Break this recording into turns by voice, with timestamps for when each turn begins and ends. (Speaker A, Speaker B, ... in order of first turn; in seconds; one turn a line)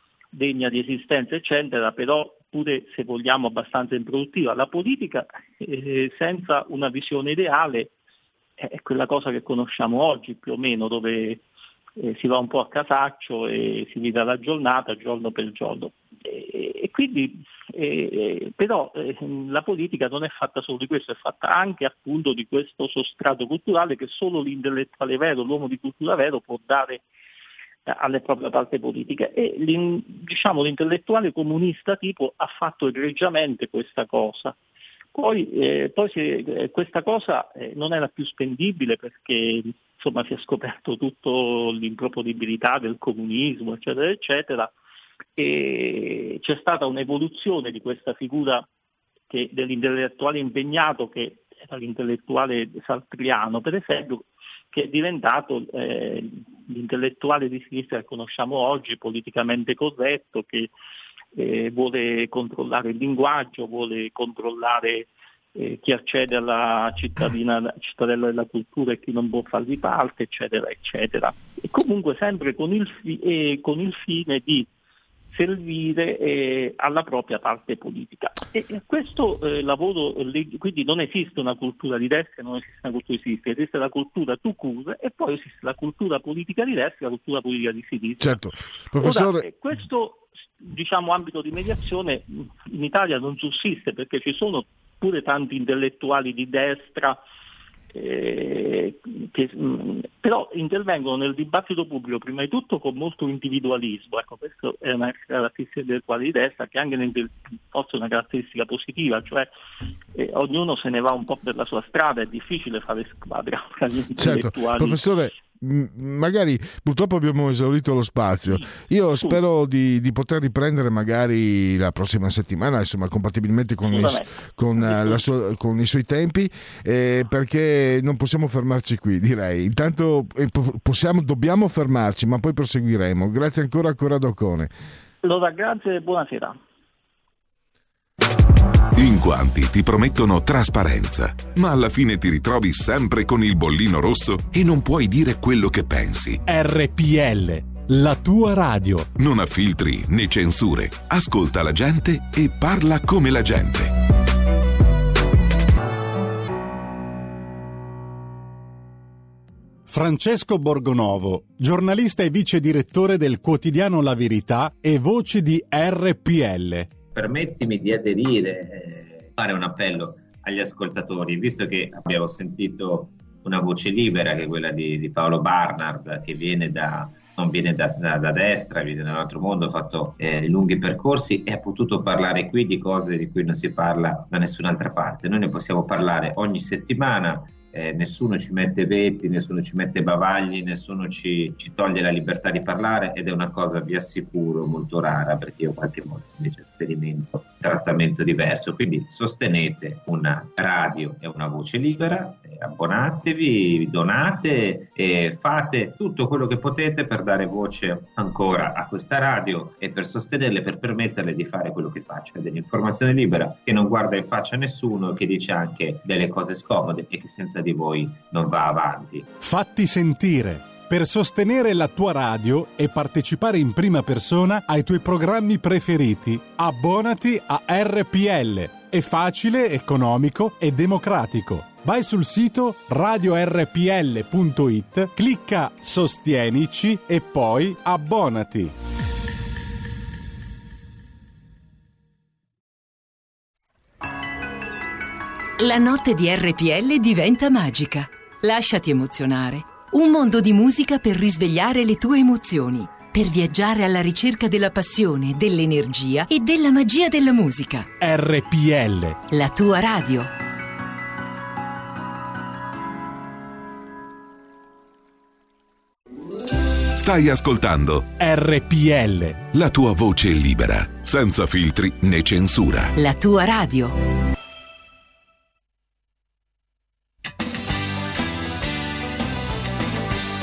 Speaker A: 0.3-7.9
Speaker A: 8.6-11.4
Speaker A: 12.0-27.0
Speaker A: 27.9-34.5
Speaker A: 35.1-44.7
Speaker A: 45.4-48.6
Speaker A: 49.3-60.7
Speaker A: 61.3-74.7
Speaker A: 75.3-88.4
Speaker B: 88.2-89.5
Speaker A: 89.0-97.2
Speaker A: 97.9-109.5
Speaker A: 110.1-115.0
Speaker B: 114.2-134.7
Speaker A: 118.5-119.4
Speaker A: 123.9-125.2
Speaker A: 135.2-136.6
Speaker C: 138.9-146.4
Speaker D: 146.4-149.1
Speaker C: 149.2-153.9
Speaker D: 159.9-166.9
Speaker E: 167.1-219.3
Speaker D: 219.4-238.7
Speaker F: 245.6-257.9
Speaker D: 258.0-259.2
Speaker F: 259.3-260.3
Speaker C: 266.9-268.1
Speaker D: 268.2-269.5
Speaker C: 269.5-272.9
Speaker F: 272.9-274.0